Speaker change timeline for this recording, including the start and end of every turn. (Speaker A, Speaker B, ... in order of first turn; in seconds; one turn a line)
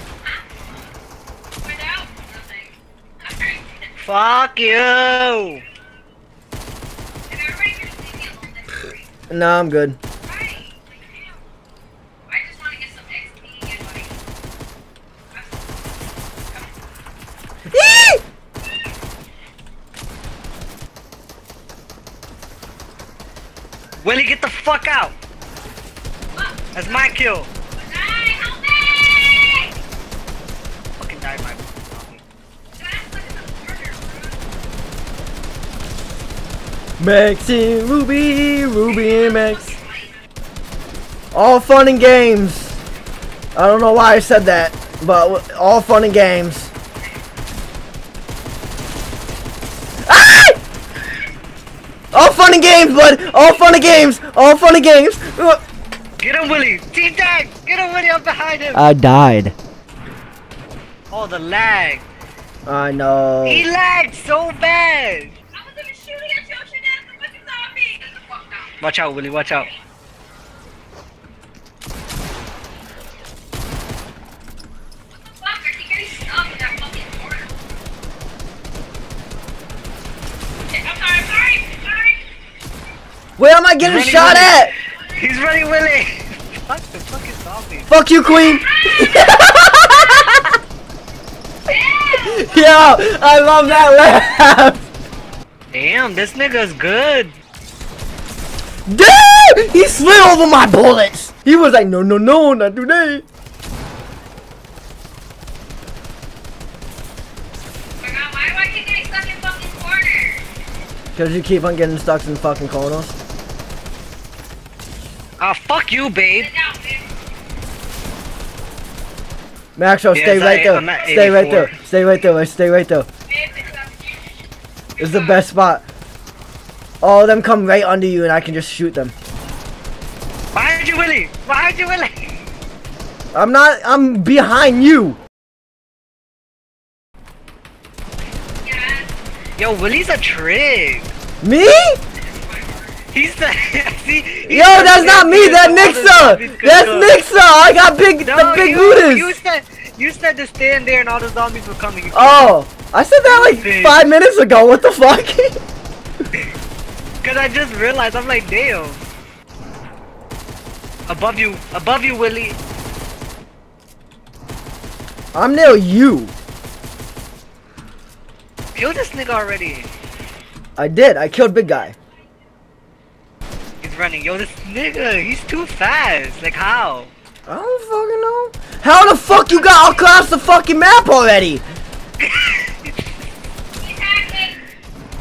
Speaker A: 1.6-3.6
Speaker B: 4.0-5.6
Speaker A: 7.3-9.1
Speaker C: 9.3-10.0
Speaker A: 10.2-11.4
Speaker A: 12.3-14.2
Speaker A: 15.3-16.8
Speaker C: 17.7-18.2
Speaker B: 24.0-25.1
Speaker A: 26.3-27.1
Speaker B: 26.7-27.5
Speaker A: 27.8-29.7
Speaker B: 31.0-32.2
Speaker A: 32.7-34.4
Speaker C: 37.0-39.6
Speaker A: 38.9-40.1
Speaker C: 41.3-42.8
Speaker C: 43.5-46.7
Speaker C: 50.1-50.6
Speaker C: 52.1-55.6
Speaker B: 56.2-58.8
Speaker C: 58.7-59.5
Speaker B: 61.1-62.1
Speaker C: 62.7-63.7
Speaker B: 63.4-65.3
Speaker A: 65.5-68.8
Speaker B: 68.8-69.7
Speaker A: 75.1-77.6
Speaker A: 80.7-82.2
Speaker C: 83.4-84.7
Speaker B: 83.8-87.9
Speaker C: 87.9-90.6
Speaker A: 88.5-89.3
Speaker A: 91.7-93.0
Speaker C: 92.2-94.9
Speaker B: 95.7-97.4
Speaker C: 98.9-103.2
Speaker A: 108.0-110.4
Speaker C: 111.2-113.2
Speaker B: 115.4-116.5
Speaker A: 116.4-117.1
Speaker C: 119.8-123.1
Speaker B: 120.1-121.7
Speaker A: 123.3-124.4
Speaker A: 125.0-125.4
Speaker C: 125.0-125.8
Speaker C: 127.0-129.2
Speaker B: 130.5-132.3
Speaker C: 133.3-135.2
Speaker A: 138.6-139.1
Speaker B: 139.6-141.1
Speaker C: 141.4-142.0
Speaker A: 142.2-143.0
Speaker B: 143.1-147.2
Speaker C: 144.4-149.3
Speaker B: 148.2-152.5
Speaker C: 152.1-155.6
Speaker B: 153.2-154.1
Speaker B: 157.2-159.1
Speaker B: 161.1-162.6
Speaker C: 165.3-166.3
Speaker B: 168.8-169.9
Speaker C: 170.8-172.0
Speaker B: 173.8-177.1
Speaker C: 177.5-181.6
Speaker B: 182.2-183.2
Speaker A: 183.8-184.6